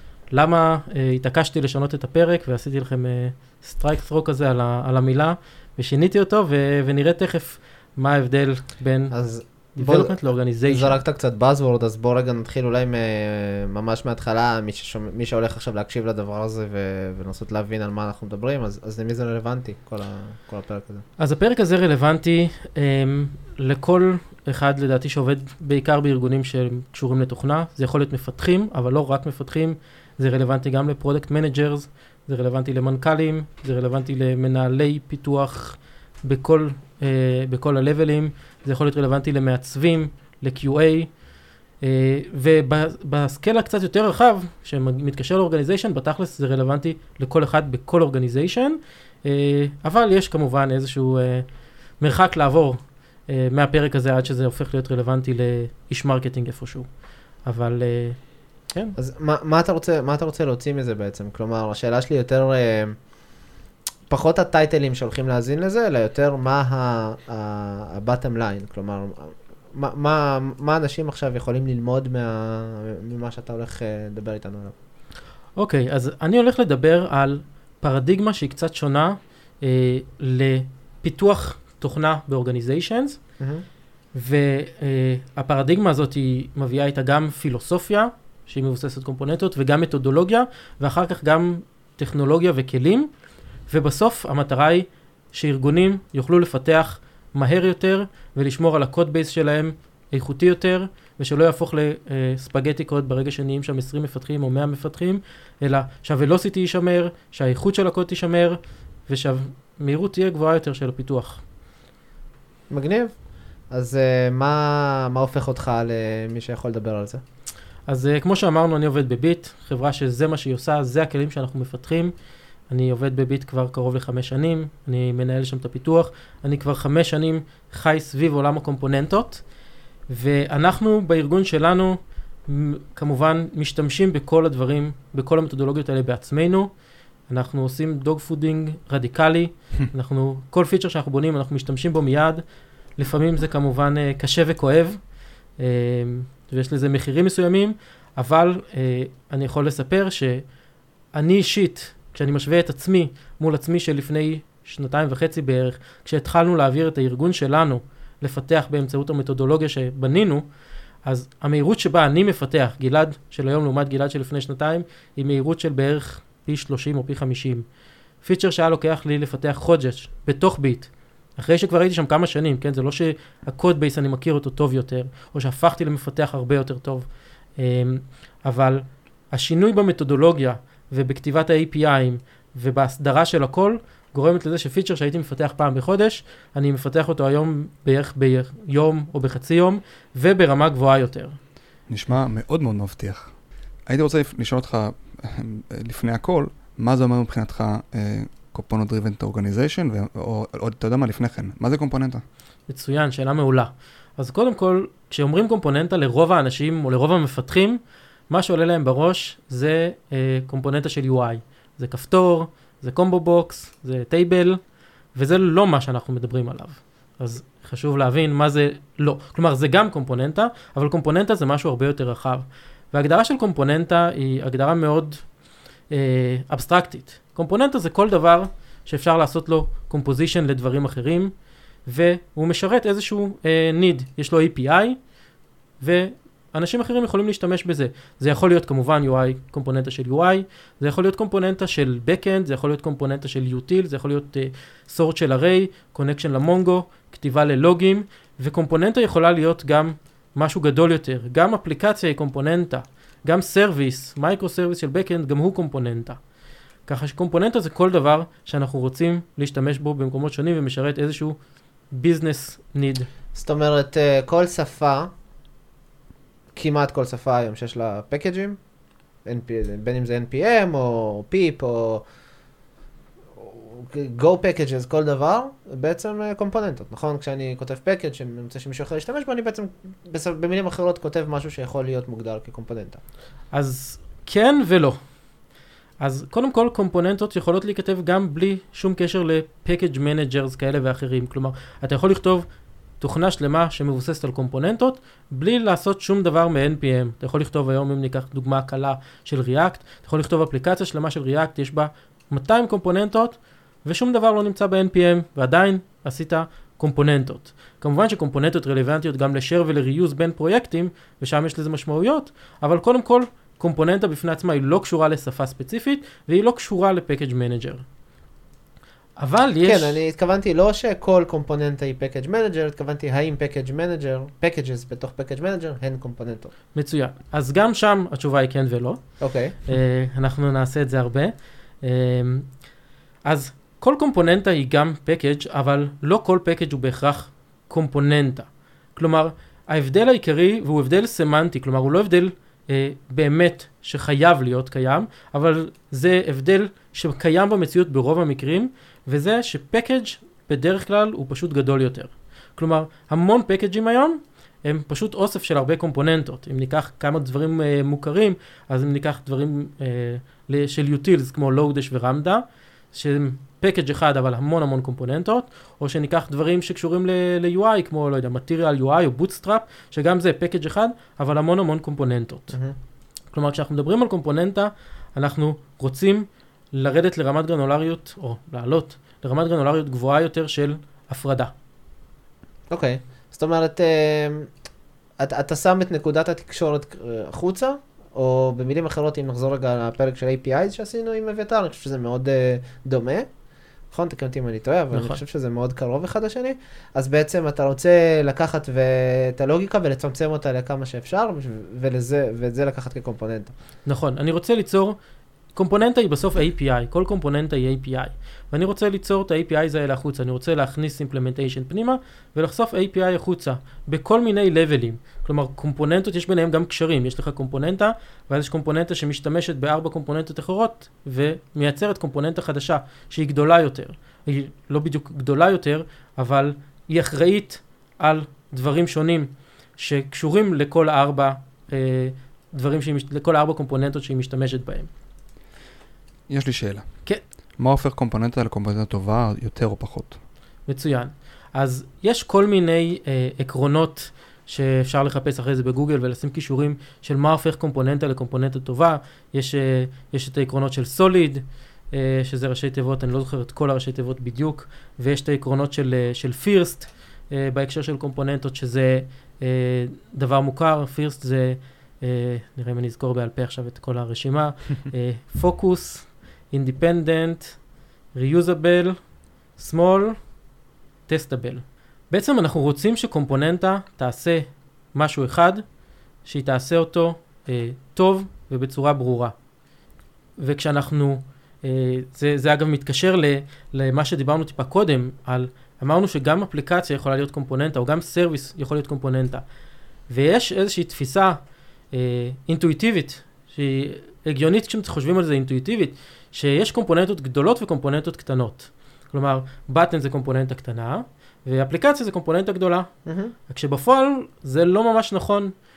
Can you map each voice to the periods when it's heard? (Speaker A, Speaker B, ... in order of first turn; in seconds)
Speaker A: 0.3-11.0, 21.2-41.2, 41.8-59.0, 75.6-83.2, 84.1-93.1, 93.7-111.4, 117.9-122.1, 122.7-129.5, 130.1-136.7, 137.3-150.5, 151.1-160.5, 161.0-167.7, 168.2-191.4, 202.7-214.6, 215.1-225.3, 225.9-231.3, 231.8-235.0, 235.8-256.2, 256.9-263.1, 283.5-285.0, 286.0-292.5, 293.0-317.9, 319.2-320.0, 326.8-332.6, 333.2-372.6, 373.3-381.5, 394.9-395.2, 403.9-405.0, 405.5-434.9, 440.7-467.6, 468.1-469.0, 469.6-470.2, 471.1-475.6, 476.2-479.4, 480.4-489.4, 490.1-491.4, 491.9-502.9, 503.5-505.5
Speaker B: 9.1-21.1, 59.0-63.1, 64.1-74.8, 83.4-83.7, 112.7-117.2, 263.3-265.1, 266.5-268.6, 269.2-272.1, 273.4-283.0, 319.6-326.5, 329.2-329.6, 382.7-384.5, 385.2-393.3, 393.9-403.5, 503.1-503.3
Speaker C: 191.9-202.2, 436.3-440.2